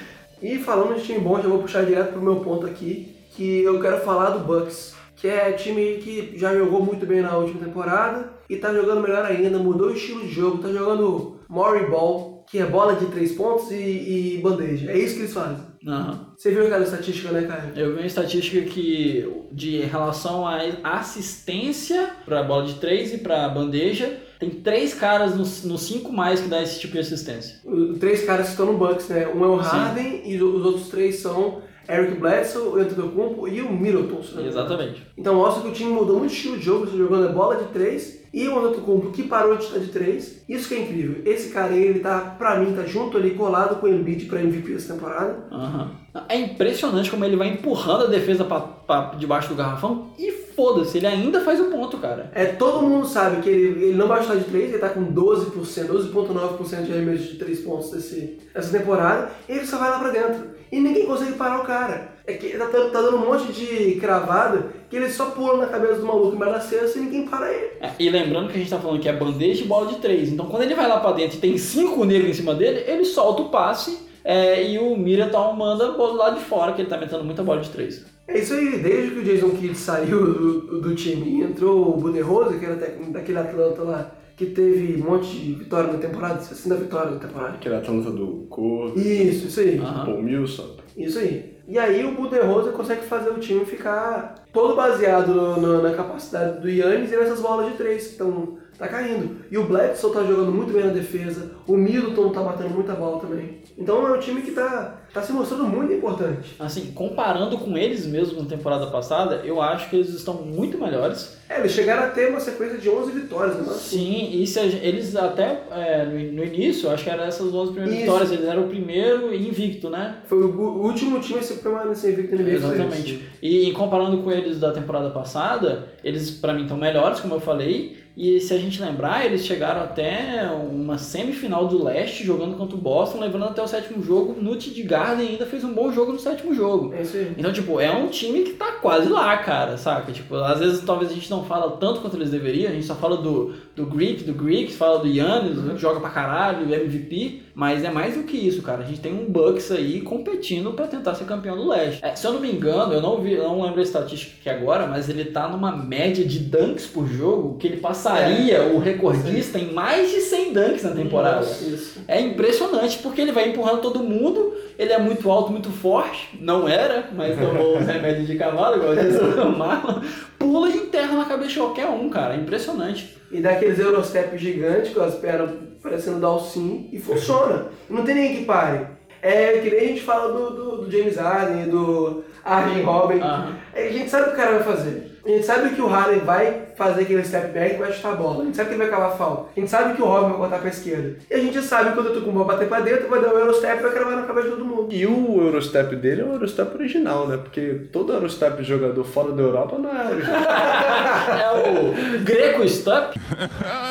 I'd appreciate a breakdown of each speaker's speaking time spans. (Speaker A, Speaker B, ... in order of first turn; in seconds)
Speaker A: 0.4-15.7, 16.4-17.8, 27.7-45.5, 52.3-67.8, 78.3-87.6, 88.9-89.9, 91.0-106.6, 111.5-114.1, 117.8-118.3, 120.3-123.2, 136.9-137.4, 158.1-158.6, 159.1-159.4, 161.0-162.1, 173.3-194.9
Speaker B: 15.8-16.2, 17.7-27.6, 29.6-29.9, 34.3-35.0, 45.5-52.4, 67.8-78.1, 89.8-90.1, 106.6-111.3, 113.7-120.2, 122.4-173.1, 183.2-183.6, 200.4-203.2
Speaker C: 87.6-89.3, 89.9-90.8, 194.9-200.8